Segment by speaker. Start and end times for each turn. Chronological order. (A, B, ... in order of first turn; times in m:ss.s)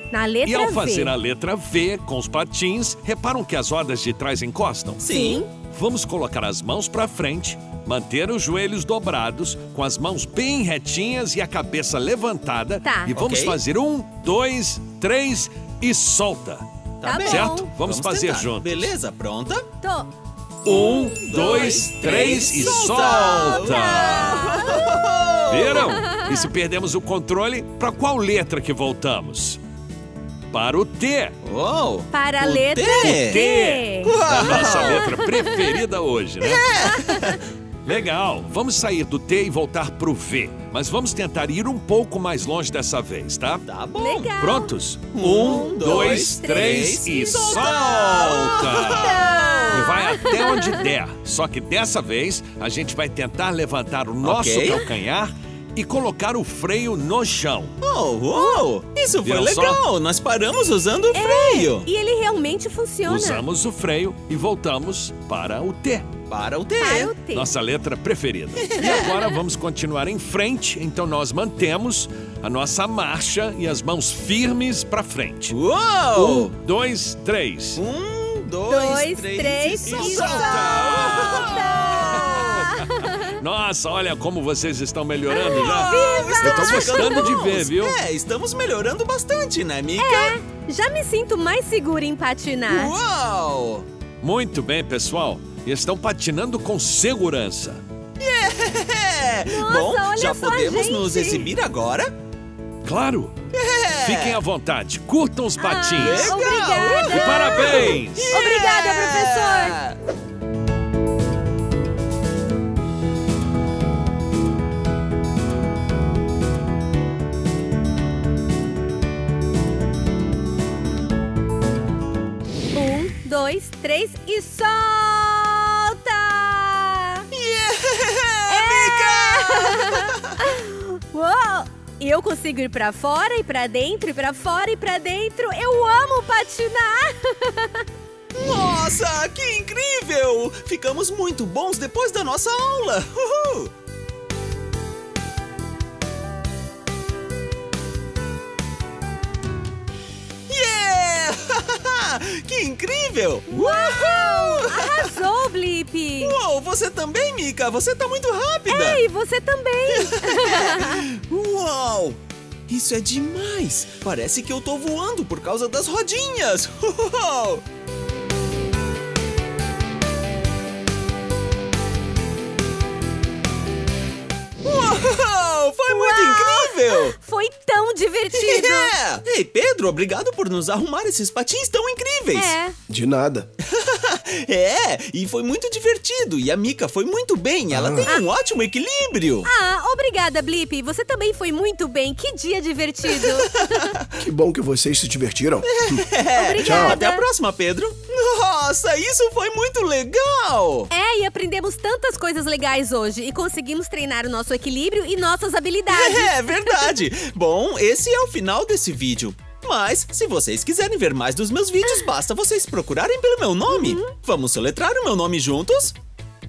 0:00.1-0:01.2 A
0:00.5-0:16.7 B
0:05.0-0:05.5 C
0:05.1-0:05.5 A
0:12.8-0:13.1 A
0:13.1-0:13.6 C
0:17.0-0:19.7 C
0:17.0-0:17.7 A
0:17.2-0:18.9 B
0:19.8-0:20.1 A
0:20.6-0:25.0 A
0:20.6-0:24.5 B
0:20.6-0:26.0 C
0:25.5-0:29.6 B
0:25.8-0:26.5 A
0:30.5-0:31.4 B
0:31.4-0:33.5 C
0:32.1-0:35.8 A
0:33.0-0:36.6 B
0:34.0-0:35.2 C
0:36.4-0:37.4 C
0:36.7-0:37.4 A
0:37.8-0:43.6 B
0:43.7-0:44.3 C
0:44.0-0:50.8 A
0:44.4-0:57.8 B
0:45.1-0:49.9 C
0:54.2-0:54.8 C
0:57.8-1:01.9 C
0:58.3-0:58.7 A
0:59.2-0:59.8 B
1:01.2-1:03.4 A
1:03.1-1:06.1 B
1:06.3-1:07.1 C
1:06.8-1:07.5 A
1:07.3-1:15.6 B
1:08.6-1:09.1 C
1:08.8-1:09.3 A
1:15.5-1:16.6 C
1:16.2-1:17.8 B
1:17.8-1:22.8 C
1:18.7-1:23.4 A
1:19.8-1:22.4 B
1:23.4-1:28.0 B
1:25.3-1:27.4 A
1:25.4-1:30.4 C
1:30.0-1:33.0 A
1:32.7-1:33.9 C
1:34.2-1:37.8 B
1:38.2-1:42.1 C
1:39.5-1:41.5 A
1:42.8-1:43.3 B
1:43.5-1:44.4 C
1:44.0-1:48.3 B
1:45.6-1:49.8 A
1:46.0-1:50.0 C
2:02.8-2:07.3 A
2:07.3-2:10.5 C
2:08.5-2:17.8 A
2:18.4-2:23.7 C
2:30.5-2:35.2 C
2:33.5-2:36.4 A
2:36.2-2:39.0 C
2:38.7-2:41.0 A
2:39.9-2:47.6 C
2:54.6-2:57.1 C
2:55.9-2:58.9 A
2:58.3-3:02.5 C
3:02.3-3:02.8 A
3:02.9-3:03.5 D
3:03.6-3:09.5 C
3:07.7-3:08.1 D
3:09.5-3:13.9 A
3:13.1-3:14.1 C
3:14.2-3:16.1 D
3:15.6-3:20.9 C
3:16.4-3:17.2 A
3:16.6-3:17.0 D
3:20.9-3:27.0 A
3:25.9-3:36.0 C
3:33.7-3:34.1 A